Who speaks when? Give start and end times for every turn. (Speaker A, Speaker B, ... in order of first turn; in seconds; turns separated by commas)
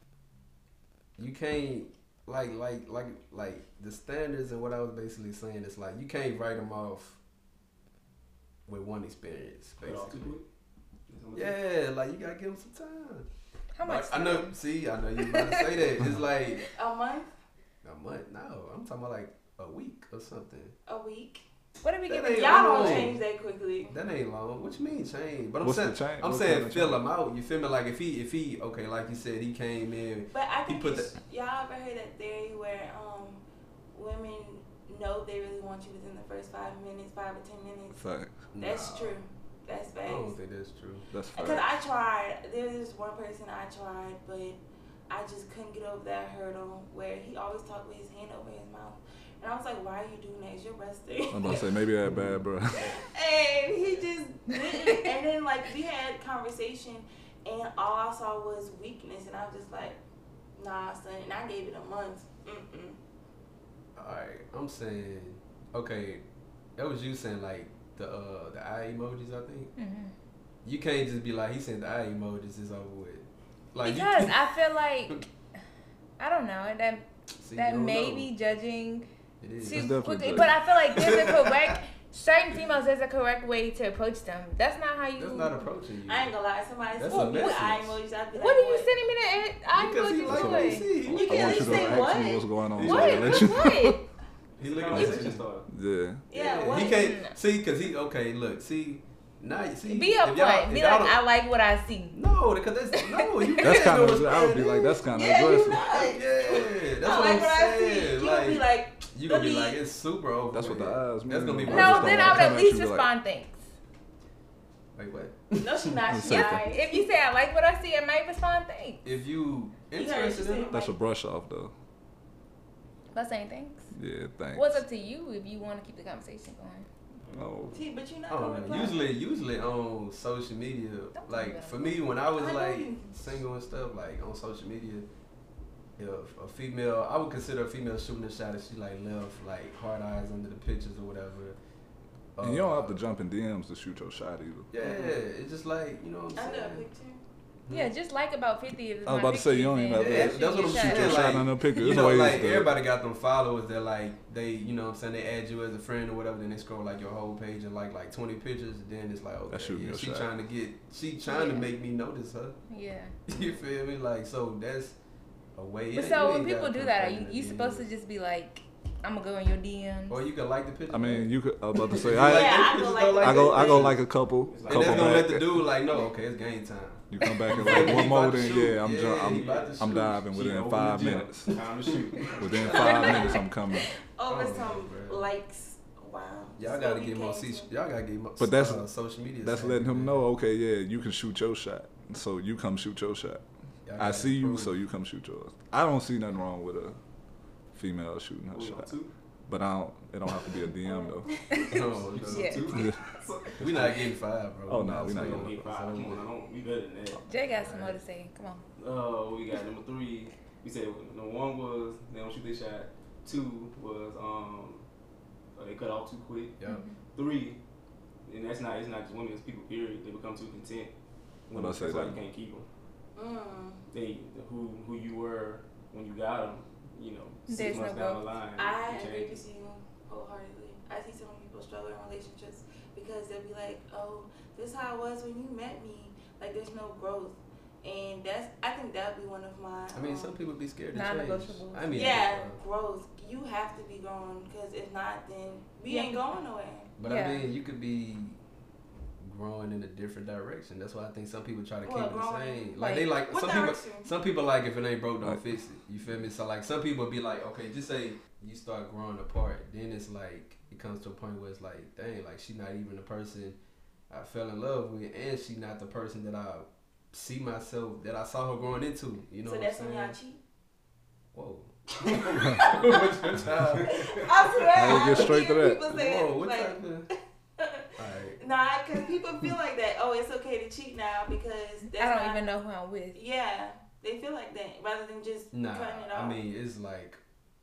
Speaker A: 1.2-7.2, Speaker A: 8.7-10.4, Speaker B: 9.8-10.4, Speaker B: 11.1-11.6, Speaker A: 11.3-13.3, Speaker C: 13.7-14.6, Speaker A: 13.8-16.7, Speaker C: 15.2-15.7, Speaker D: 16.6-17.3, Speaker A: 17.8-20.8, Speaker D: 20.9-21.4, Speaker C: 21.8-23.1, Speaker A: 22.1-23.2, Speaker D: 22.3-23.9, Speaker A: 23.9-31.1, Speaker E: 25.6-27.0, Speaker D: 30.3-38.0, Speaker E: 37.9-38.5, Speaker A: 38.5-39.2, Speaker D: 38.6-40.4, Speaker A: 40.0-41.1, Speaker E: 41.1-41.8, Speaker D: 41.3-51.8, Speaker E: 51.3-52.9, Speaker A: 52.0-52.4, Speaker D: 52.8-60.0, Speaker A: 53.6-54.1, Speaker D: 60.5-63.0, Speaker A: 64.0-66.2, Speaker A: 66.8-69.7, Speaker C: 69.8-70.1, Speaker A: 70.6-74.4, Speaker C: 73.8-75.3, Speaker C: 76.2-79.1, Speaker A: 77.4-78.3, Speaker A: 79.4-79.9, Speaker C: 79.6-85.7, Speaker E: 79.7-80.5, Speaker A: 80.9-81.5, Speaker A: 85.2-86.4, Speaker D: 86.0-88.9, Speaker A: 86.9-88.0, Speaker C: 87.1-87.7, Speaker C: 88.3-91.2, Speaker A: 89.7-92.0, Speaker E: 90.2-94.0, Speaker D: 91.0-93.6, Speaker A: 92.8-93.4, Speaker C: 92.8-94.0, Speaker B: 94.6-95.7, Speaker A: 94.6-95.5, Speaker E: 94.9-96.2, Speaker D: 96.3-97.0, Speaker A: 96.3-101.2, Speaker C: 96.8-97.3, Speaker C: 99.8-102.2, Speaker A: 102.1-104.7, Speaker E: 103.6-105.9, Speaker D: 104.8-109.9, Speaker A: 105.7-112.6, Speaker E: 110.5-113.1, Speaker C: 111.7-113.6, Speaker A: 114.9-116.2, Speaker D: 115.6-117.1, Speaker E: 116.1-116.7, Speaker C: 116.3-119.0, Speaker A: 119.0-120.8, Speaker D: 119.9-120.9, Speaker E: 120.7-121.7, Speaker C: 123.1-123.9, Speaker E: 123.9-124.8, Speaker C: 124.5-126.9, Speaker B: 127.2-127.5, Speaker E: 127.3-127.8, Speaker D: 127.7-129.2, Speaker A: 128.3-135.1, Speaker C: 131.2-132.1, Speaker D: 132.3-133.3, Speaker A: 136.0-141.6, Speaker A: 142.3-143.0, Speaker E: 142.4-144.7, Speaker A: 144.7-146.9, Speaker D: 146.3-147.2, Speaker C: 147.7-151.9, Speaker E: 149.0-152.8, Speaker A: 149.9-162.6, Speaker E: 159.5-160.3, Speaker C: 161.3-161.7, Speaker C: 162.7-163.1, Speaker A: 163.3-165.0, Speaker A: 165.6-167.9, Speaker C: 165.9-170.2, Speaker A: 170.1-171.3, Speaker E: 170.9-175.7, Speaker A: 171.9-174.0, Speaker D: 172.2-174.0, Speaker B: 174.4-175.3, Speaker A: 174.7-180.2, Speaker E: 177.1-181.5, Speaker B: 177.7-178.6, Speaker B: 179.2-183.2, Speaker E: 182.4-183.9, Speaker A: 182.4-183.4, Speaker D: 182.7-187.7, Speaker A: 184.2-185.3, Speaker A: 186.6-190.2, Speaker E: 188.4-188.9, Speaker E: 189.4-193.4, Speaker A: 193.8-194.7, Speaker E: 194.0-197.0, Speaker E: 197.7-198.9, Speaker B: 198.5-199.1, Speaker E: 199.5-201.3, Speaker D: 200.8-201.8, Speaker A: 201.6-202.7, Speaker B: 201.7-204.2, Speaker C: 202.2-202.9, Speaker E: 202.6-203.0, Speaker A: 203.6-206.3, Speaker E: 204.7-205.6, Speaker B: 205.0-207.3, Speaker C: 207.2-208.7, Speaker A: 207.6-208.0, Speaker B: 208.8-214.9, Speaker B: 215.5-216.6, Speaker A: 216.6-216.8, Speaker C: 216.7-217.0, Speaker B: 217.1-217.6, Speaker B: 218.2-220.9, Speaker B: 221.5-222.7, Speaker E: 221.5-222.2, Speaker D: 223.2-223.8, Speaker B: 223.9-229.4, Speaker C: 227.5-228.3, Speaker D: 228.5-240.4, Speaker A: 239.9-242.6, Speaker C: 240.9-242.2, Speaker D: 241.9-246.9, Speaker C: 245.8-246.2, Speaker A: 247.0-248.4, Speaker C: 247.0-247.5, Speaker A: 249.2-263.6, Speaker D: 251.8-254.1, Speaker C: 252.8-253.1, Speaker A: 264.1-270.2, Speaker D: 269.4-270.4, Speaker A: 271.3-274.3, Speaker D: 272.1-273.0, Speaker B: 272.3-274.7, Speaker D: 273.8-282.5, Speaker E: 274.7-275.8, Speaker A: 275.8-277.1, Speaker A: 278.0-278.4, Speaker C: 281.9-283.2, Speaker D: 283.1-286.4, Speaker A: 285.5-287.2